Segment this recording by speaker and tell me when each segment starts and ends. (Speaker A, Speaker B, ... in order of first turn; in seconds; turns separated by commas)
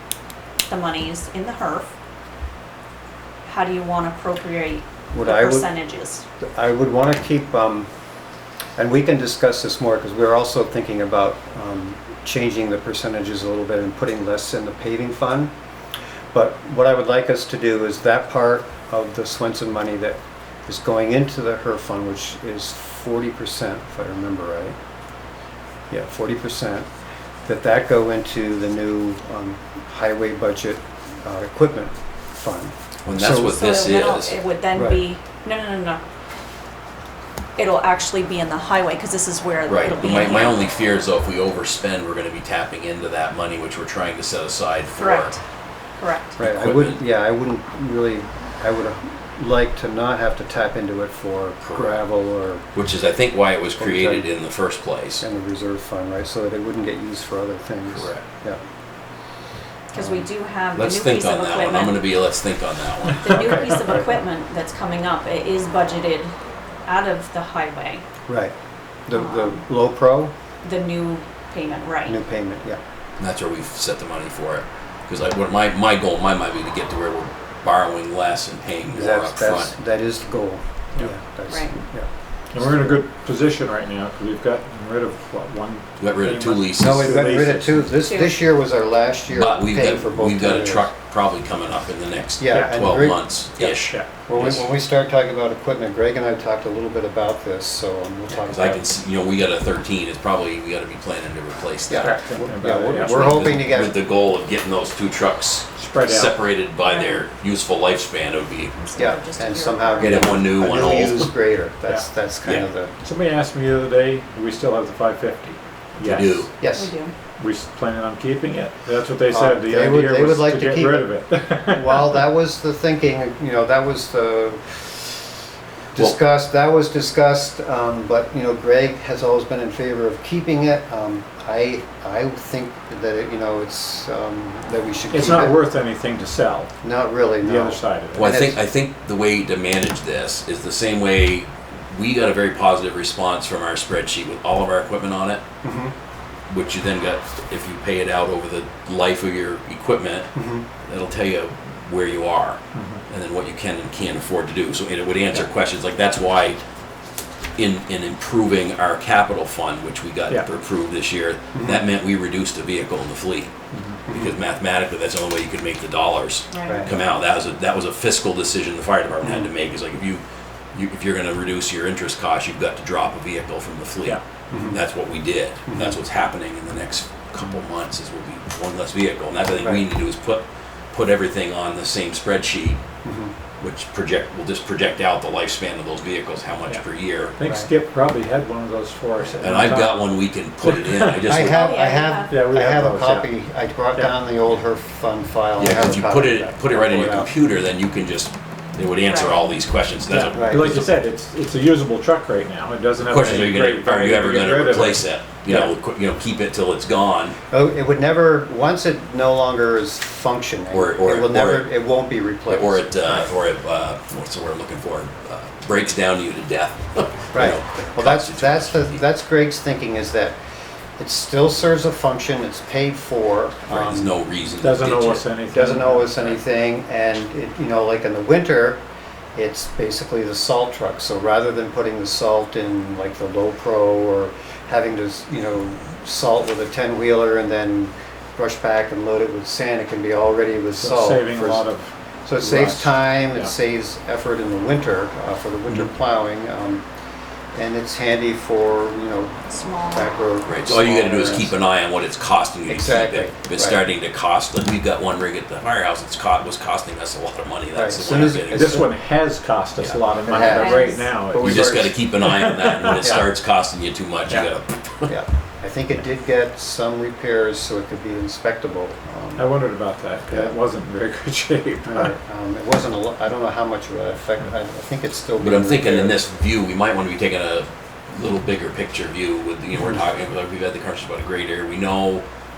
Speaker A: 0.7-1.9, Speaker A: 3.4-6.2, Speaker B: 5.1-5.7, Speaker B: 6.5-7.9, Speaker B: 8.8-15.5, Speaker B: 16.3-24.8, Speaker B: 25.9-26.9, Speaker B: 27.4-33.8, Speaker C: 33.0-34.4, Speaker A: 33.4-36.0, Speaker B: 34.7-35.0, Speaker A: 37.6-40.6, Speaker C: 39.7-45.3, Speaker A: 45.0-45.4, Speaker A: 46.0-46.4, Speaker C: 46.4-47.0, Speaker B: 46.4-52.6, Speaker C: 51.6-52.0, Speaker C: 52.7-55.2, Speaker B: 53.8-54.3, Speaker B: 55.2-58.6, Speaker C: 57.9-58.2, Speaker A: 59.9-62.0, Speaker B: 59.9-60.3, Speaker C: 60.7-63.6, Speaker A: 63.2-66.3, Speaker B: 63.7-64.1, Speaker A: 66.8-68.0, Speaker B: 68.3-68.5, Speaker B: 69.1-70.3, Speaker A: 69.1-69.6, Speaker A: 70.6-72.2, Speaker B: 72.0-72.8, Speaker C: 73.2-79.7, Speaker B: 78.9-83.0, Speaker A: 81.5-81.7, Speaker D: 82.5-87.9, Speaker C: 86.0-87.3, Speaker B: 86.8-90.9, Speaker A: 88.0-88.4, Speaker C: 89.3-94.7, Speaker B: 92.4-98.8, Speaker C: 98.3-102.2, Speaker B: 101.9-104.0, Speaker D: 101.9-103.5, Speaker C: 103.0-108.8, Speaker D: 105.8-106.4, Speaker A: 106.9-107.2, Speaker A: 108.7-110.4, Speaker B: 109.0-112.9, Speaker C: 110.0-111.3, Speaker D: 110.7-111.1, Speaker C: 112.4-112.7, Speaker D: 113.0-116.5, Speaker C: 116.0-116.5, Speaker B: 116.6-116.9, Speaker A: 116.7-117.1, Speaker D: 117.4-122.2, Speaker B: 119.3-121.1, Speaker B: 121.7-125.2, Speaker B: 125.9-135.6, Speaker D: 135.1-136.7, Speaker B: 136.8-138.6, Speaker D: 137.4-138.3, Speaker C: 138.1-145.4, Speaker B: 145.6-145.9, Speaker C: 146.5-150.3, Speaker B: 150.3-150.7, Speaker C: 150.8-156.6, Speaker D: 152.7-153.0, Speaker C: 157.6-163.5, Speaker B: 161.5-161.8, Speaker D: 163.7-164.0, Speaker C: 164.1-170.2, Speaker A: 166.5-166.9, Speaker B: 169.2-169.5, Speaker C: 170.7-182.8, Speaker B: 174.5-174.8, Speaker B: 175.7-176.0, Speaker B: 183.0-183.3, Speaker C: 183.6-187.3, Speaker D: 186.7-190.1, Speaker B: 187.4-187.7, Speaker C: 189.4-191.6, Speaker D: 190.6-191.2, Speaker B: 191.2-197.3, Speaker A: 191.4-192.4, Speaker D: 192.3-193.3, Speaker C: 195.6-200.9, Speaker A: 199.1-199.5, Speaker D: 200.1-205.0, Speaker B: 200.2-200.8, Speaker C: 203.0-207.4, Speaker B: 207.5-213.3, Speaker C: 210.7-211.7, Speaker C: 212.5-219.0, Speaker B: 217.3-220.3, Speaker B: 221.0-224.1, Speaker C: 223.7-225.2, Speaker D: 224.6-226.4, Speaker B: 225.5-228.8, Speaker B: 229.3-241.7, Speaker D: 240.8-243.5, Speaker B: 242.2-246.8, Speaker B: 247.5-251.5, Speaker A: 249.5-250.1, Speaker C: 250.4-258.8, Speaker B: 252.7-253.8, Speaker B: 257.7-258.9, Speaker D: 258.5-263.2, Speaker C: 259.8-260.0, Speaker B: 260.2-261.9, Speaker A: 260.3-261.1, Speaker C: 261.3-265.1, Speaker B: 263.0-263.2, Speaker B: 265.1-269.5, Speaker D: 269.4-272.1, Speaker B: 270.3-270.5, Speaker B: 271.9-276.2, Speaker C: 275.4-282.2